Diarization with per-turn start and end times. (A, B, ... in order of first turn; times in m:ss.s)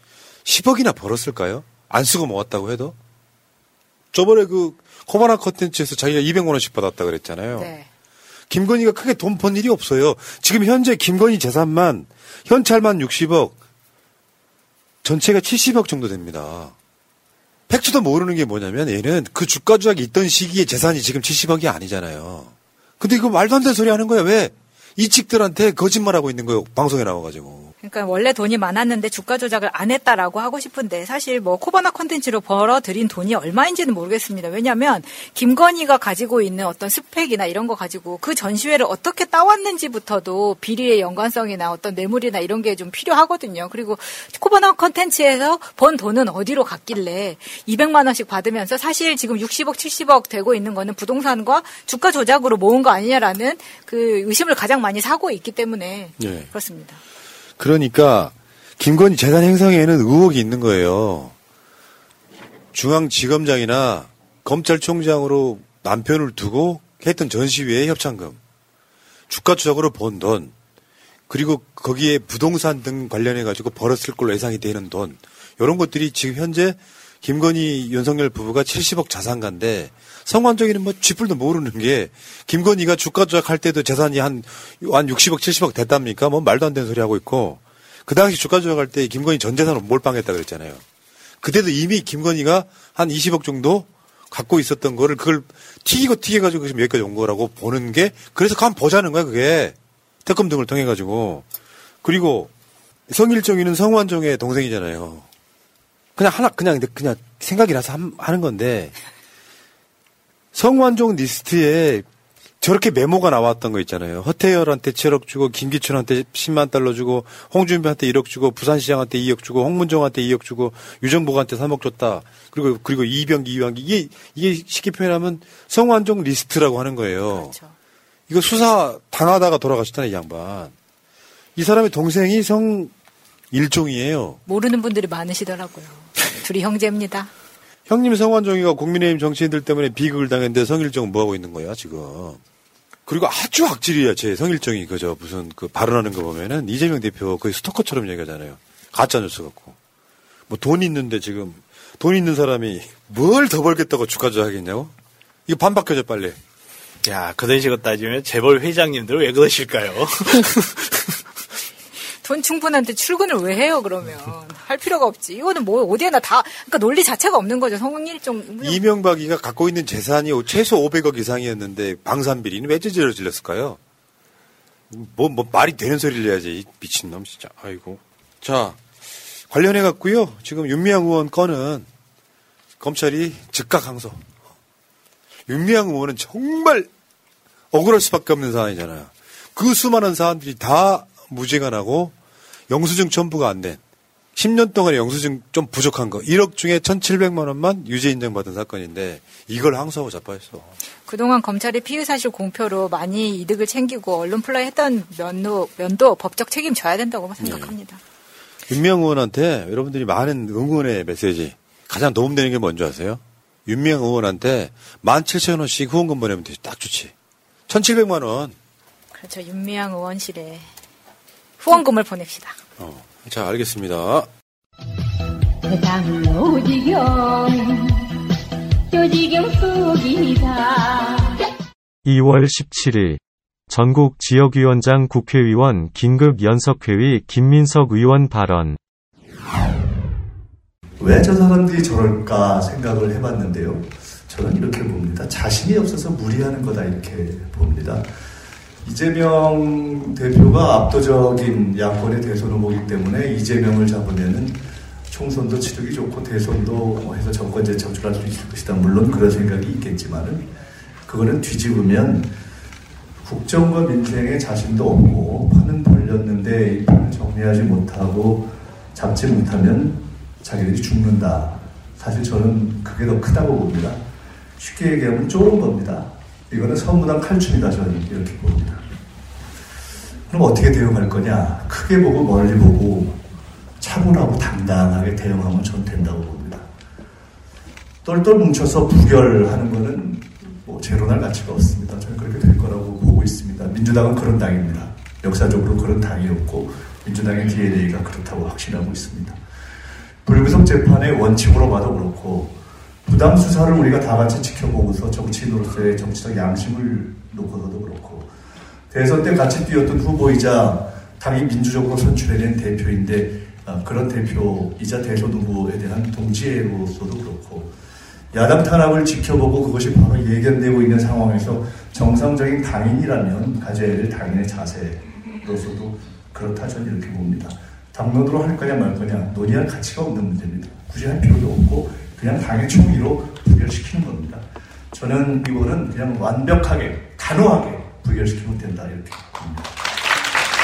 0:00.4-0:03.0 A
0:04.1-0:07.7 A
0:07.5-0:07.9 B
0:08.5-0:13.6 A
0:15.0-0:16.7 A
0:17.7-0:27.7 A
0:27.8-0:57.0 B
0:56.2-0:56.5 A
0:57.6-1:01.4 A
1:02.7-1:08.4 A
1:09.3-1:10.5 A
1:11.3-1:30.8 A
1:31.4-1:41.5 A
1:42.0-1:42.5 A
1:43.1-1:45.3 A
1:46.2-1:48.9 A
1:50.5-1:52.1 A
1:52.6-2:07.6 A
2:07.3-2:07.7 B
2:08.3-2:10.7 A
2:11.6-2:12.9 A
2:13.5-2:14.4 A
2:14.5-2:17.3 B
2:17.9-2:22.4 A
2:23.1-2:29.8 A
2:30.5-2:34.9 A
2:35.5-2:36.4 A
2:37.0-2:41.0 C
2:42.2-2:48.8 B
2:48.6-2:53.8 A
2:54.9-2:58.8 A
2:59.5-3:01.9 A
3:02.8-3:04.2 A
3:05.5-3:06.9 A
3:07.7-3:12.2 A
3:12.7-3:13.8 A
3:14.4-3:20.7 A
3:21.1-3:28.0 B
3:27.4-3:27.7 A
3:28.7-3:37.1 A
3:37.7-3:38.6 A
3:39.2-3:40.7 B
3:41.6-3:42.6 B
3:42.8-3:44.3 A
3:45.6-3:48.0 D
3:48.9-3:51.4 D
3:52.1-3:58.8 E
4:01.0-4:08.1 F
4:08.8-4:14.6 F
4:15.1-4:20.5 F
4:21.1-4:22.3 F
4:23.2-4:34.0 F
4:34.6-4:38.8 F
4:40.3-4:43.2 F
4:43.8-4:46.7 F
4:48.0-4:59.4 F
5:00.3-5:02.5 F
5:03.1-5:08.3 F
5:08.9-5:17.7 F
5:18.3-5:34.4 F
5:34.9-5:39.7 F